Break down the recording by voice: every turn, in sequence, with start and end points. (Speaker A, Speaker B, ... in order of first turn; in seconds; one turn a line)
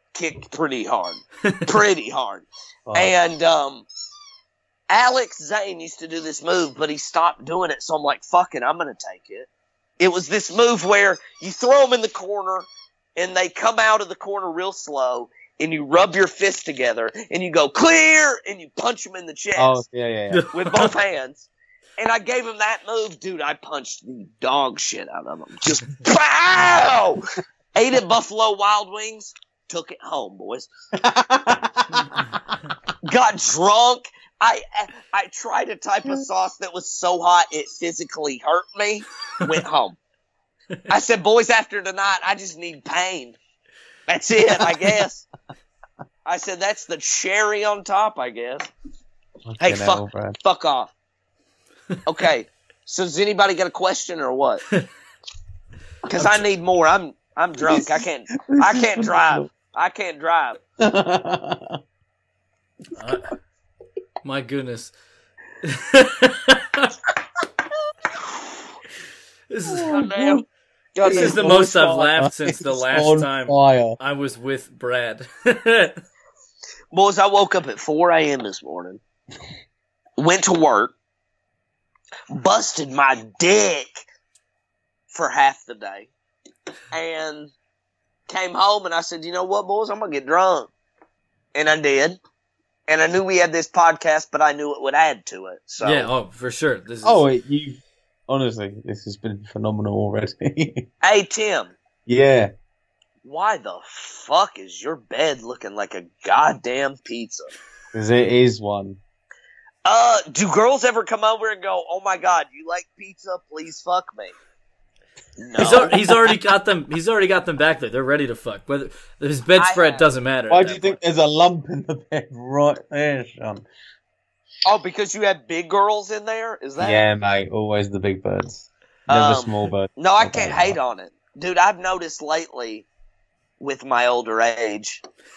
Speaker A: 0.1-3.8
Speaker B: 2.9-3.1
Speaker A: 4.9-19.8
Speaker B: 19.6-20.5
Speaker C: 20.3-20.9
Speaker A: 20.5-30.7
Speaker B: 31.0-32.5
Speaker A: 33.0-40.0
Speaker A: 40.9-43.4
Speaker A: 44.1-45.2
Speaker A: 46.2-48.7
Speaker B: 49.5-50.4
Speaker A: 49.6-50.9
Speaker A: 52.0-54.6
Speaker A: 56.1-60.6
Speaker B: 57.7-59.5
Speaker B: 60.8-61.8
Speaker C: 62.9-63.3
Speaker C: 64.2-64.9
Speaker C: 65.6-66.9
Speaker C: 69.5-70.0
Speaker B: 69.7-70.4
Speaker A: 69.9-71.5
Speaker B: 71.0-74.0
Speaker C: 71.1-76.0
Speaker A: 76.9-79.0
Speaker A: 80.2-80.9
Speaker A: 82.3-84.0
Speaker A: 85.1-86.1
Speaker A: 86.9-87.5
Speaker A: 88.3-90.7
Speaker A: 91.5-92.2
Speaker A: 92.9-96.1
Speaker C: 95.8-97.2
Speaker B: 97.0-100.8
Speaker A: 101.0-101.7
Speaker B: 102.0-102.5
Speaker A: 103.2-107.5
Speaker B: 107.9-109.0
Speaker A: 109.8-114.3
Speaker A: 115.4-115.9
Speaker C: 115.6-121.0
Speaker A: 119.6-120.0
Speaker B: 120.5-123.6
Speaker A: 124.7-127.0
Speaker B: 126.8-130.8
Speaker A: 129.1-132.8
Speaker A: 133.6-135.0